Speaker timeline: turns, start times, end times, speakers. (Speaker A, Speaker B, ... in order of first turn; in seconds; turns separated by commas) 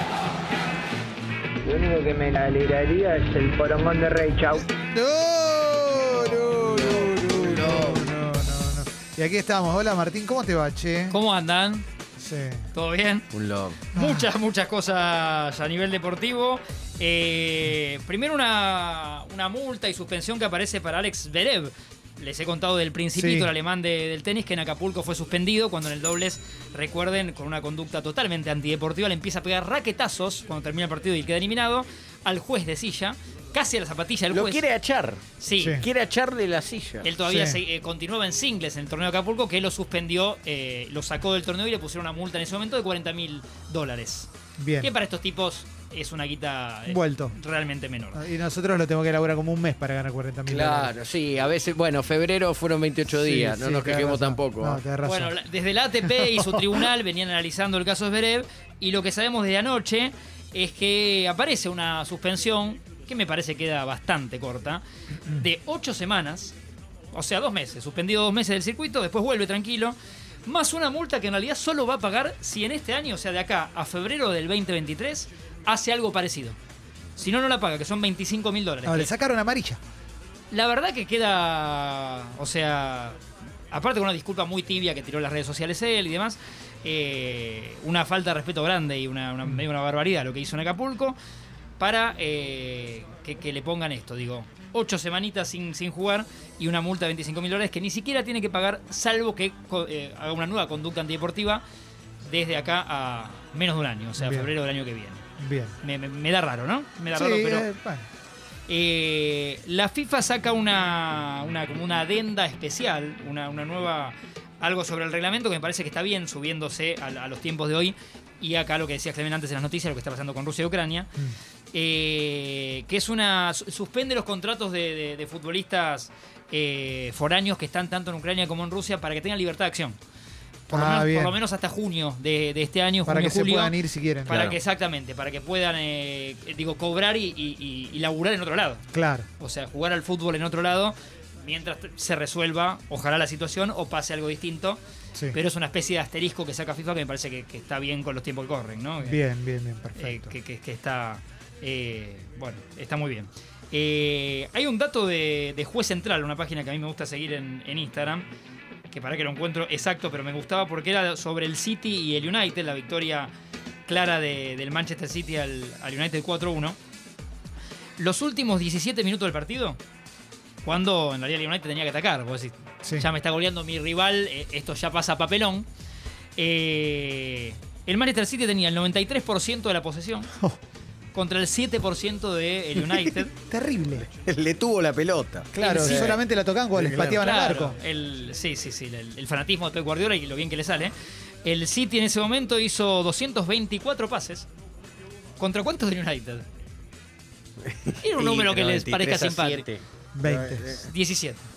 Speaker A: 1.6-4.6, Speaker B: 4.8-11.2, Speaker C: 6.2-8.1, Speaker D: 11.1-11.8, Speaker B: 12.2-12.7, Speaker D: 12.7-13.3, Speaker C: 13.3-13.8, Speaker D: 13.9-34.6, Speaker B: 13.9-14.3, Speaker B: 23.1-23.5, Speaker C: 34.3-35.2, Speaker D: 35.4-35.8, Speaker B: 35.6-35.9, Speaker C: 35.8-37.1, Speaker D: 37.0-48.2, Speaker B: 37.3-37.6, Speaker B: 44.6-44.9, Speaker B: 46.9-47.4, Speaker B: 48.1-50.9, Speaker C: 50.5-54.8, Speaker B: 53.1-55.3, Speaker D: 55.0-66.5, Speaker D: 67.1-76.6, Speaker D: 77.2-79.1, Speaker B: 78.8-79.8, Speaker D: 80.5-83.2, Speaker D: 83.7-91.2, Speaker D: 91.8-101.6, Speaker D: 102.2-105.2, Speaker B: 104.2-104.5, Speaker B: 105.4-105.8, Speaker D: 105.8-107.7, Speaker B: 107.1-108.1, Speaker D: 108.7-121.1, Speaker D: 121.7-130.0, Speaker D: 130.7-138.8, Speaker B: 130.7-131.4, Speaker B: 133.1-134.3, Speaker C: 134.3-134.6, Speaker B: 138.9-139.3, Speaker D: 139.4-144.8, Speaker D: 145.3-149.2, Speaker B: 149.0-150.3, Speaker D: 150.0-158.3, Speaker D: 158.9-163.3, Speaker D: 163.9-166.8, Speaker D: 168.0-169.8, Speaker D: 170.6-175.7, Speaker D: 176.4-180.3, Speaker D: 181.1-183.3, Speaker B: 183.5-184.1, Speaker C: 184.1-186.2, Speaker B: 185.5-187.8, Speaker D: 185.6-186.2, Speaker C: 186.7-187.2, Speaker D: 187.2-194.5, Speaker D: 195.4-196.5, Speaker C: 197.6-200.9, Speaker D: 198.0-199.7, Speaker B: 200.2-200.8, Speaker D: 200.8-201.4